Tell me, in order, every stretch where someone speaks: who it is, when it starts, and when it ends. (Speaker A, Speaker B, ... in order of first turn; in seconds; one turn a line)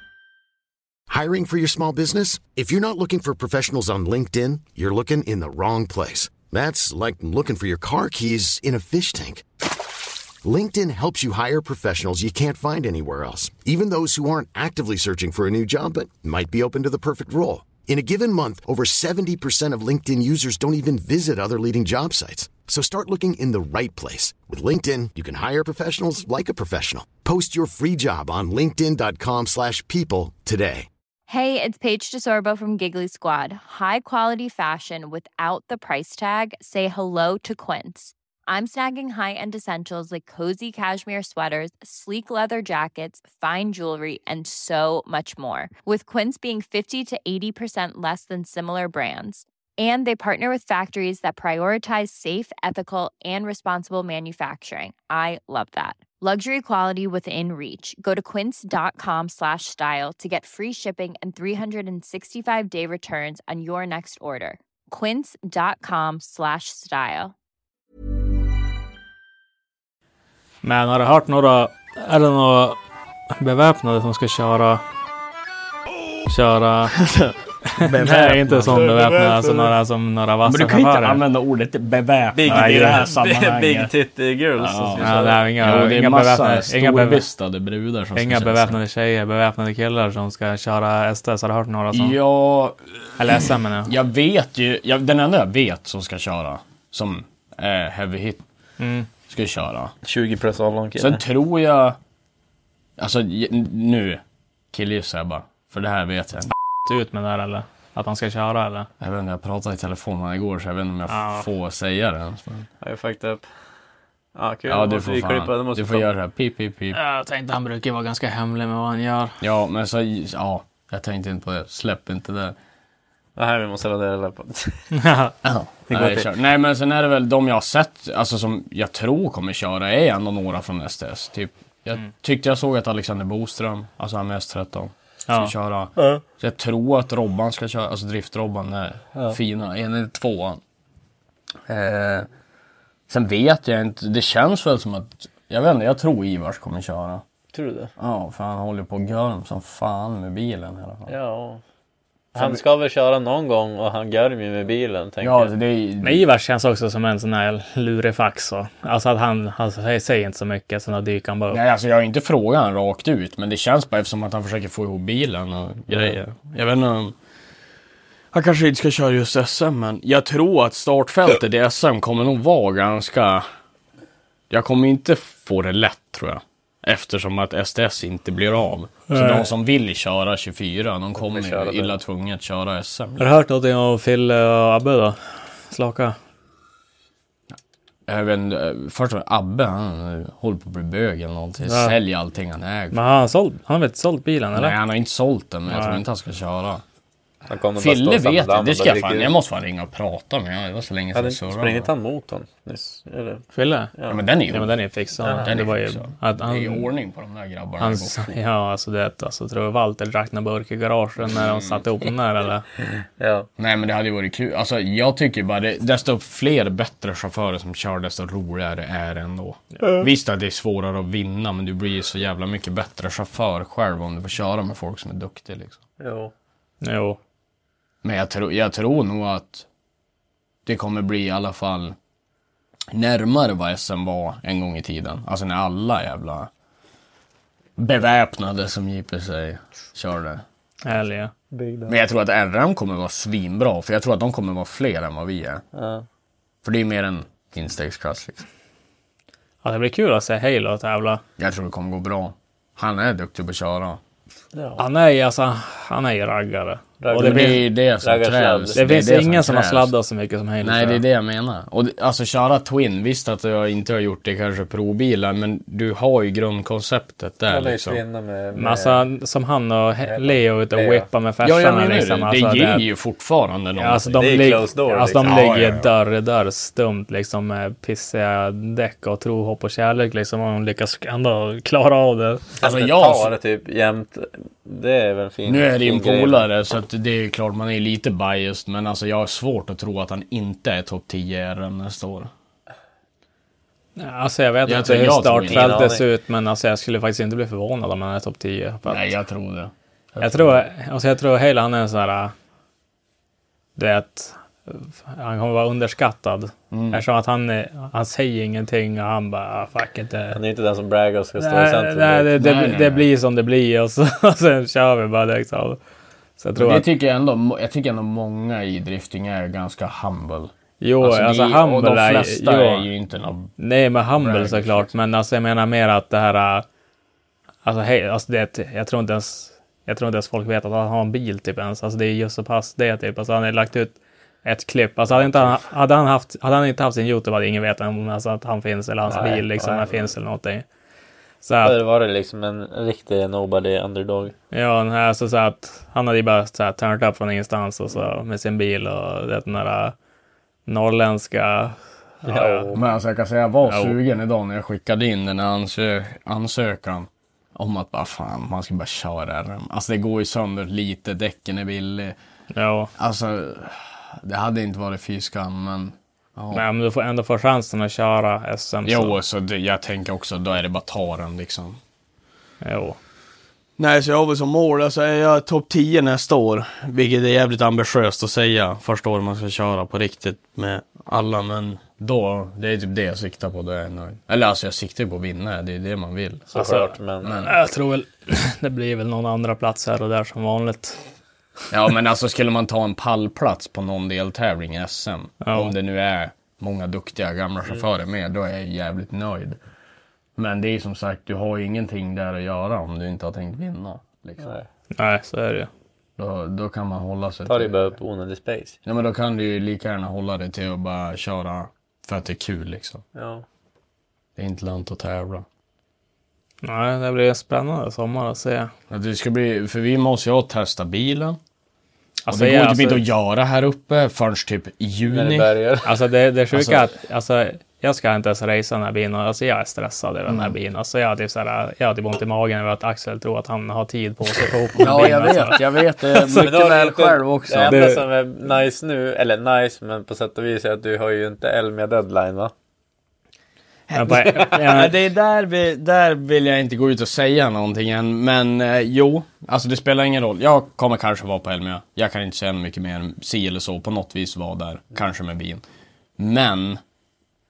Speaker A: 1.1-9.5
Speaker A: 10.4-30.9
Speaker B: 31.3-67.3
Speaker C: 70.6-72.8
Speaker C: 73.3-74.8
Speaker C: 76.3-77.0
Speaker D: 76.9-79.0
Speaker C: 77.7-81.2
Speaker E: 78.8-79.7
Speaker D: 80.5-83.9
Speaker E: 82.3-85.4
Speaker C: 82.5-83.0
Speaker D: 84.6-88.8
Speaker C: 85.0-87.2
Speaker C: 88.2-92.2
Speaker D: 91.9-92.8
Speaker C: 93.2-93.9
Speaker D: 93.8-98.4
Speaker C: 98.8-99.1
Speaker D: 99.3-99.9
Speaker E: 100.0-101.2
Speaker D: 101.0-102.0
Speaker D: 103.0-104.2
Speaker D: 104.7-106.5
Speaker C: 106.9-108.9
Speaker D: 109.0-112.7
Speaker C: 111.1-111.5
Speaker E: 112.8-113.5
Speaker E: 114.4-116.1
Speaker D: 114.7-117.0
Speaker C: 116.9-119.4
Speaker D: 119.4-122.6
Speaker E: 123.4-124.9
Speaker C: 124.9-125.3
Speaker D: 125.4-140.6
Speaker E: 125.9-126.3
Speaker C: 135.3-135.5
Speaker D: 141.7-142.3
Speaker D: 143.1-147.2
Speaker E: 147.5-147.9
Speaker D: 148.0-151.1
Speaker E: 151.1-151.6
Speaker D: 152.3-152.6
Speaker E: 152.3-155.5
Speaker D: 155.2-156.2
Speaker C: 156.0-161.6
Speaker D: 161.5-167.2
Speaker D: 168.3-173.4
Speaker D: 174.5-183.3
Speaker C: 179.1-179.5
Speaker E: 181.2-182.0
Speaker C: 183.2-186.2
Speaker D: 188.1-193.0
Speaker C: 191.7-192.0
Speaker C: 192.9-194.8
Speaker D: 194.5-196.8
Speaker C: 195.7-196.0
Speaker E: 197.5-199.3
Speaker D: 197.8-201.9
Speaker E: 201.1-203.4
Speaker C: 203.6-203.9
Speaker D: 204.1-204.8
Speaker C: 204.5-206.9
Speaker E: 205.2-205.5
Speaker D: 205.4-208.4
Speaker C: 207.8-212.7
Speaker D: 211.3-211.8
Speaker E: 213.2-213.5
Speaker D: 213.6-225.8
Speaker E: 226.0-226.3
Speaker C: 226.8-227.2
Speaker D: 228.0-229.7
Speaker D: 230.7-232.0
Speaker D: 232.9-236.5
Speaker D: 237.8-240.4
Speaker C: 240.8-241.3
Speaker E: 241.5-241.9
Speaker D: 241.9-245.6
Speaker E: 245.7-246.1
Speaker D: 246.6-248.4
Speaker C: 249.6-251.2
Speaker D: 251.4-254.0
Speaker E: 254.6-254.8
Speaker C: 254.8-257.6
Speaker E: 257.0-258.8
Speaker D: 257.2-259.9
Speaker C: 258.8-261.0
Speaker D: 260.6-268.0
Speaker E: 267.5-269.0
Speaker C: 268.6-272.9
Speaker E: 270.0-271.1
Speaker D: 271.4-274.3
Speaker C: 273.8-282.5
Speaker E: 274.2-275.4
Speaker D: 275.2-275.9
Speaker E: 282.6-286.4
Speaker D: 282.6-283.3
Speaker D: 285.5-292.3
Speaker C: 294.0-299.1
Speaker D: 294.6-295.9
Speaker E: 295.5-296.1
Speaker D: 298.9-300.6
Speaker C: 300.2-302.3
Speaker C: 303.8-310.4
Speaker D: 306.7-307.0
Speaker E: 310.3-312.4
Speaker C: 311.4-315.8
Speaker D: 312.4-313.1
Speaker C: 316.4-316.9
Speaker D: 316.6-323.5
Speaker C: 320.8-322.9
Speaker C: 323.6-326.7
Speaker D: 324.2-324.9
Speaker C: 327.6-340.6
Speaker E: 339.1-340.1
Speaker C: 341.4-341.8
Speaker E: 341.6-344.4
Speaker C: 344.5-349.9
Speaker C: 350.7-352.7
Speaker E: 352.2-352.8
Speaker D: 352.7-362.2
Speaker C: 353.7-354.0
Speaker C: 362.5-362.9
Speaker D: 363.0-366.7
Speaker C: 366.5-369.2
Speaker D: 368.8-371.8
Speaker C: 372.6-373.0
Speaker D: 373.8-386.5
Speaker E: 386.5-387.4
Speaker C: 386.5-391.0
Speaker D: 387.2-387.5
Speaker D: 391.7-399.6
Speaker C: 395.4-395.7
Speaker D: 400.4-404.6
Speaker E: 404.4-404.7
Speaker C: 404.9-405.7
Speaker D: 406.2-407.8
Speaker E: 407.5-408.8
Speaker D: 408.9-413.0
Speaker E: 413.1-413.4
Speaker D: 414.4-415.5
Speaker C: 416.6-418.7
Speaker D: 418.9-421.4
Speaker C: 422.3-423.1
Speaker D: 422.3-425.5
Speaker E: 425.1-426.0
Speaker C: 425.9-436.5
Speaker D: 426.5-426.9
Speaker D: 430.3-430.6
Speaker D: 434.8-437.9
Speaker E: 436.4-442.5
Speaker C: 437.6-438.0
Speaker D: 443.9-455.6
Speaker C: 443.9-444.9
Speaker D: 456.2-456.8